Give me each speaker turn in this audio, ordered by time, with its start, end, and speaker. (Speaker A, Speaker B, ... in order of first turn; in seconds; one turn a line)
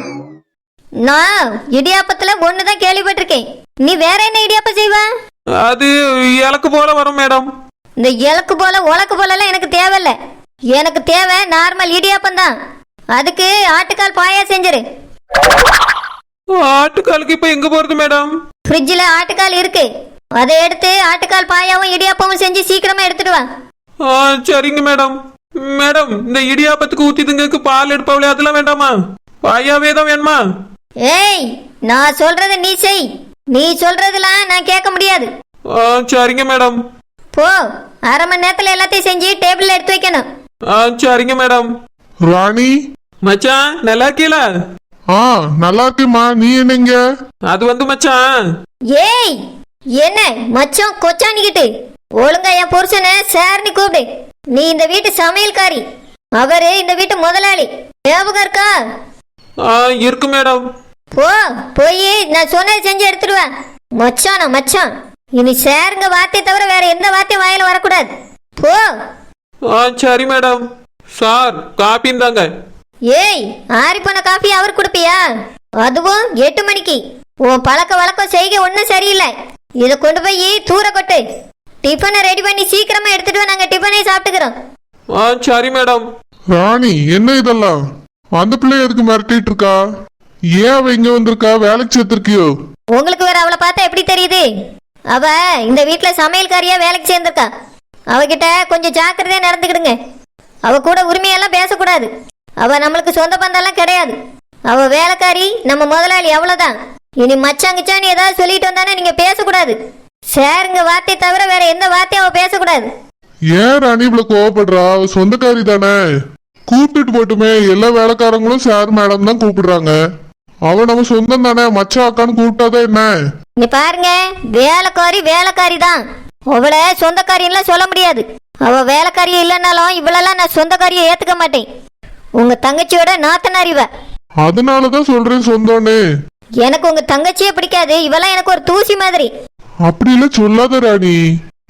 Speaker A: 1.0-5.0
Speaker B: 5.6-7.5
Speaker A: 8.0-10.2
Speaker A: 10.7-12.5
Speaker A: 13.1-14.8
Speaker B: 16.6-18.3
Speaker A: 18.7-23.4
Speaker B: 24.0-28.9
Speaker B: 29.4-30.4
Speaker A: 31.1-35.3
Speaker B: 35.7-36.8
Speaker A: 37.3-40.2
Speaker B: 40.7-41.7
Speaker C: 42.2-42.7
Speaker B: 43.2-44.4
Speaker C: 45.1-47.0
Speaker B: 47.5-48.2
Speaker A: 48.9-49.4
Speaker A: 50.0-51.7
Speaker A: 52.2-55.8
Speaker A: 56.4-58.7
Speaker B: 59.6-60.6
Speaker A: 61.1-68.8
Speaker B: 69.7-70.6
Speaker B: 71.2-72.5
Speaker A: 73.1-75.2
Speaker A: 75.8-81.2
Speaker A: 81.8-84.5
Speaker B: 85.2-86.0
Speaker C: 86.5-87.8
Speaker C: 88.4-89.8
Speaker C: 90.6-92.5
Speaker A: 93.0-94.5
Speaker A: 95.1-97.5
Speaker A: 98.1-100.0
Speaker A: 100.7-102.1
Speaker A: 102.6-104.2
Speaker A: 104.7-109.8
Speaker A: 110.3-112.9
Speaker C: 113.5-116.0
Speaker C: 116.7-120.0
Speaker C: 120.7-123.1
Speaker A: 123.6-126.0
Speaker A: 126.5-131.6
Speaker A: 132.4-133.9
Speaker C: 134.4-136.0
Speaker A: 136.6-139.3
Speaker C: 139.8-141.2